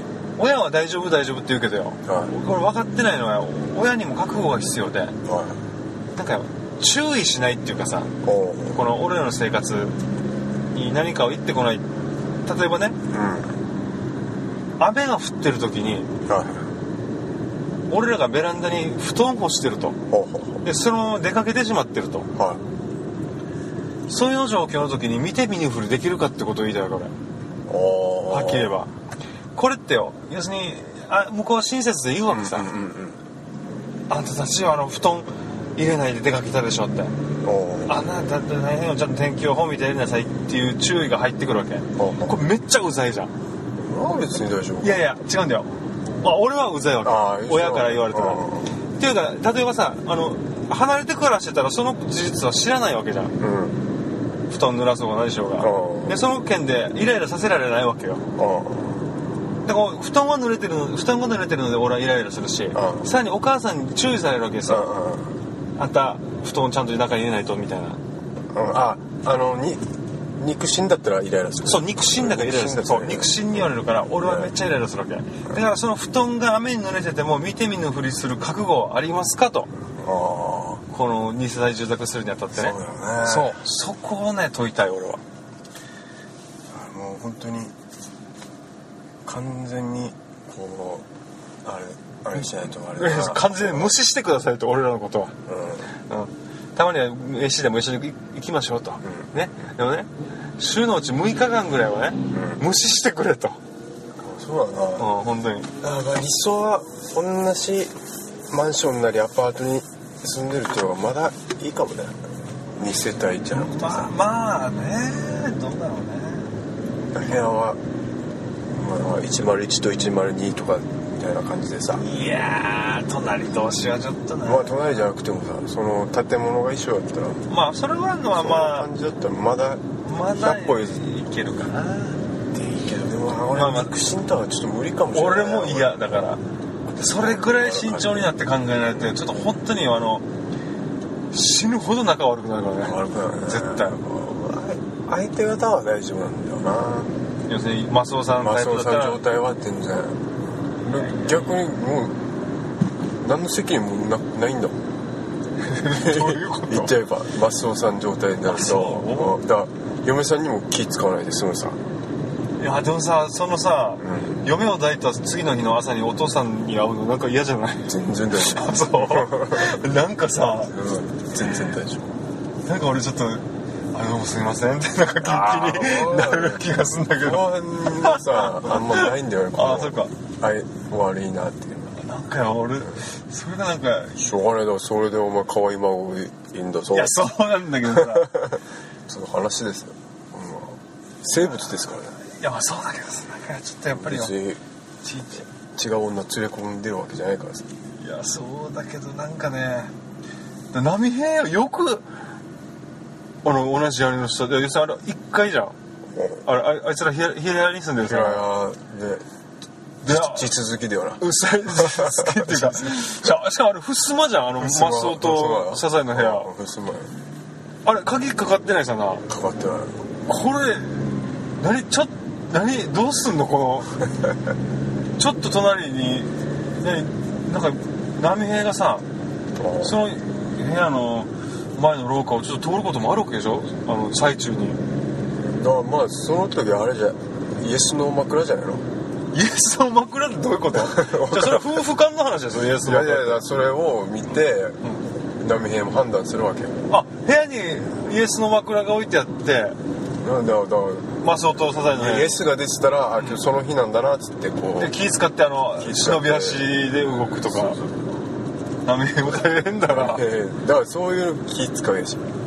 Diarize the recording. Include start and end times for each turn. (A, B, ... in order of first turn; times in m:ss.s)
0:00.4-0:05.1 A
0:02.0-0:02.3 B
0:05.2-0:05.6 B
0:06.1-0:08.1 A
0:08.2-0:08.8 B
0:08.7-0:10.0 A
0:10.7-0:11.9 A
0:12.4-0:13.0 A
0:13.1-0:13.6 B
0:14.8-0:16.1 A
0:16.3-0:16.6 B
0:17.9-0:20.0 A
0:20.1-0:20.6 B
0:20.6-0:22.3 A
0:22.4-0:22.6 B
0:24.1-0:27.1 A
0:27.7-0:28.7 B
0:28.3-0:28.9 A
0:29.5-0:32.7 A
0:32.3-0:33.2 B
0:34.1-0:37.1 A
0:37.4-0:38.0 B
0:37.9-0:43.3 A
0:42.0-0:42.3 B
0:43.8-0:45.2 B
0:44.8-0:53.3 A
0:47.0-0:48.8 B
0:53.4-0:53.8 B
0:54.5-0:58.2 A
0:55.6-0:56.2 B
0:58.4-0:59.0 B
0:59.6-1:04.9 A
1:02.7-1:03.1 B
1:04.7-1:05.4 B
1:05.8-1:08.0 A
1:08.5-1:09.8 B
1:10.4-1:14.5 B
1:11.6-1:19.7 A
1:20.0-1:20.8 B
1:20.9-1:25.2 A
1:22.5-1:23.6 B
1:26.7-1:27.7 B
1:29.2-1:31.0 B
1:31.6-1:34.0 B
1:32.9-1:35.3 A
1:35.5-1:35.9 B
1:36.1-1:43.6 A
1:39.0-1:39.3 B
1:42.3-1:42.6 B
1:44.2-1:45.1 B
1:45.0-1:45.7 A
1:45.8-1:47.9 B
1:48.5-1:52.2 B
1:52.8-1:54.1 B
1:53.5-1:56.5 A
1:57.1-1:57.8 B
1:58.8-2:02.0 B
2:02.0-2:04.8 A
2:04.4-2:07.4 B
2:07.5-2:08.9 A
2:08.3-2:11.0 B
2:10.0-2:12.2 A
2:12.5-2:16.2 B
2:13.5-2:13.9 A
2:15.1-2:16.4 A
2:16.9-2:18.3 B
2:17.0-2:20.2 A
2:21.3-2:24.0 A
2:22.8-2:27.1 B
2:27.5-2:29.3 A
2:28.4-2:30.2 B
2:30.8-2:32.2 B
2:33.2-2:34.8 B
2:35.6-2:36.9 A
2:35.9-2:41.8 B
2:38.4-2:39.4 A
2:42.6-2:50.7 A
2:44.0-2:44.4 B
2:47.9-2:49.8 B
2:50.4-2:52.1 B
2:52.6-3:00.1 A
2:55.2-3:01.9 B
3:01.9-3:04.2 A
3:04.2-3:07.3 B
3:06.9-3:08.4 A
3:07.8-3:12.2 B
3:11.4-3:14.3 A
3:13.9-3:14.6 B
3:15.0-3:15.4 A
3:15.7-3:17.7 B
3:18.0-3:19.9 A
3:20.7-3:22.0 A
3:23.4-3:25.7 A
3:26.1-3:26.4 B
3:26.4-3:28.4 A
3:28.0-3:29.2 B
3:30.0-3:30.5 A
3:30.0-3:33.3 B
3:31.2-3:36.5 A
3:34.6-3:37.1 B
3:37.8-3:39.2 A
3:39.3-3:39.9 B
3:40.3-3:43.9 A
3:45.2-3:49.0 A
3:49.6-3:50.0 B
3:49.8-3:54.8 A
3:55.4-3:58.8 B
3:59.3-4:03.4 A
4:00.7-4:01.9 B
4:02.8-4:06.8 B
4:06.9-4:09.8 A
4:10.2-4:15.0 B
4:11.2-4:12.4 A
4:14.8-4:17.8 A
4:15.7-4:18.0 B
4:18.8-4:20.2 A
4:19.9-4:22.3 B